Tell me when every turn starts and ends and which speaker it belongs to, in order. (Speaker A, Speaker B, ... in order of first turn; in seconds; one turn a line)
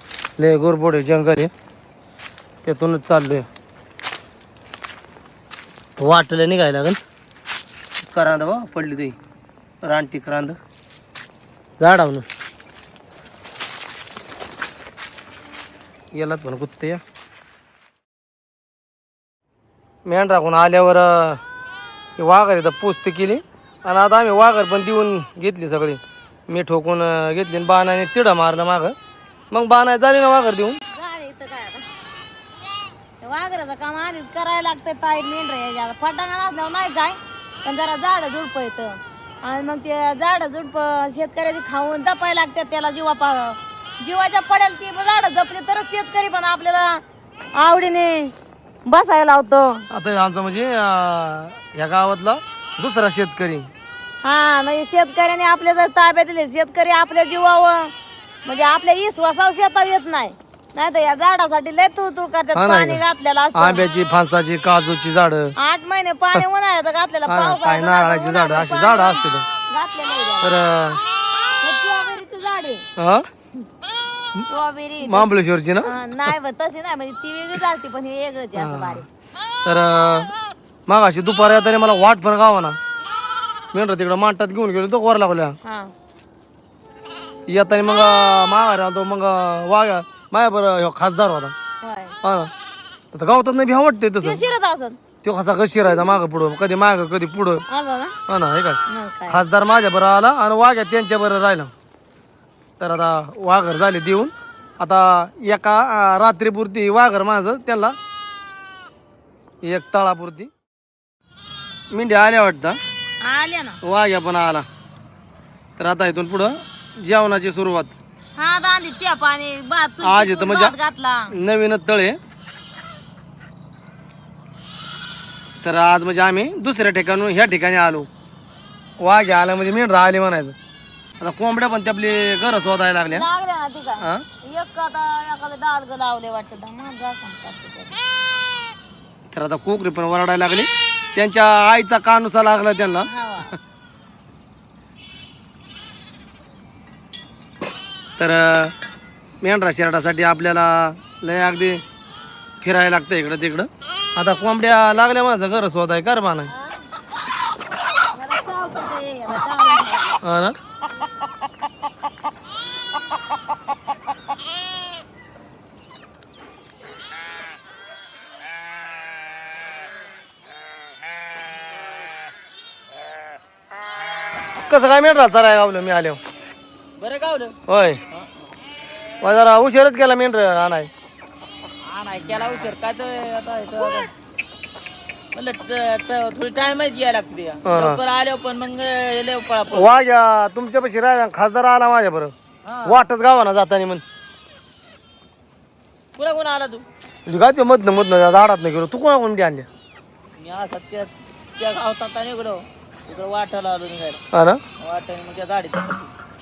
Speaker A: 0.4-1.5
Speaker A: 2.6-3.5
Speaker A: 6.0-7.0
Speaker A: 8.0-9.2
Speaker A: 9.8-10.6
Speaker A: 11.8-12.2
Speaker A: 16.1-17.0
Speaker A: 20.1-21.4
Speaker A: 22.2-28.9
Speaker A: 29.5-30.8
Speaker B: 30.9-31.9
Speaker B: 33.2-47.0
Speaker B: 47.6-48.3
Speaker B: 48.9-49.9
Speaker A: 49.9-53.7
Speaker B: 54.2-57.9
Speaker B: 58.5-63.9
Speaker A: 62.5-63.0
Speaker A: 63.5-65.5
Speaker B: 65.6-70.6
Speaker A: 67.3-69.5
Speaker A: 70.4-71.0
Speaker B: 71.6-72.9
Speaker A: 73.0-73.3
Speaker B: 74.5-75.3
Speaker A: 75.0-76.3
Speaker B: 75.8-79.0
Speaker A: 78.6-79.0
Speaker A: 79.7-80.3
Speaker A: 80.9-82.8
Speaker A: 83.7-85.6
Speaker B: 85.6-85.9
Speaker A: 87.5-91.5
Speaker B: 91.8-92.2
Speaker A: 92.2-92.5
Speaker A: 93.1-94.4
Speaker B: 94.2-95.0
Speaker A: 95.2-97.6
Speaker B: 97.7-98.2
Speaker A: 98.3-101.7
Speaker B: 98.9-99.4
Speaker A: 102.8-108.0
Speaker A: 109.6-110.5
Speaker A: 111.9-112.8
Speaker B: 113.2-113.8
Speaker A: 113.8-114.7
Speaker A: 115.8-118.0
Speaker B: 118.4-121.3
Speaker A: 120.0-120.8
Speaker A: 121.3-122.2
Speaker A: 125.6-128.1
Speaker A: 129.0-130.6
Speaker A: 131.2-133.3
Speaker B: 133.1-138.0
Speaker A: 139.3-143.5
Speaker B: 143.1-143.5
Speaker A: 148.2-148.7
Speaker A: 149.4-151.8
Speaker A: 152.6-156.5
Speaker B: 158.1-160.2
Speaker A: 160.2-160.6
Speaker A: 174.6-176.2
Speaker C: 177.0-177.6
Speaker A: 177.7-178.0
Speaker A: 179.2-180.9
Speaker C: 181.8-184.1
Speaker C: 185.3-190.0
Speaker A: 187.7-188.0
Speaker A: 189.7-192.3
Speaker C: 192.7-193.1
Speaker A: 192.8-194.0
Speaker C: 196.2-196.8
Speaker A: 197.3-199.7
Speaker C: 200.4-204.2
Speaker A: 204.3-204.6
Speaker C: 204.8-206.1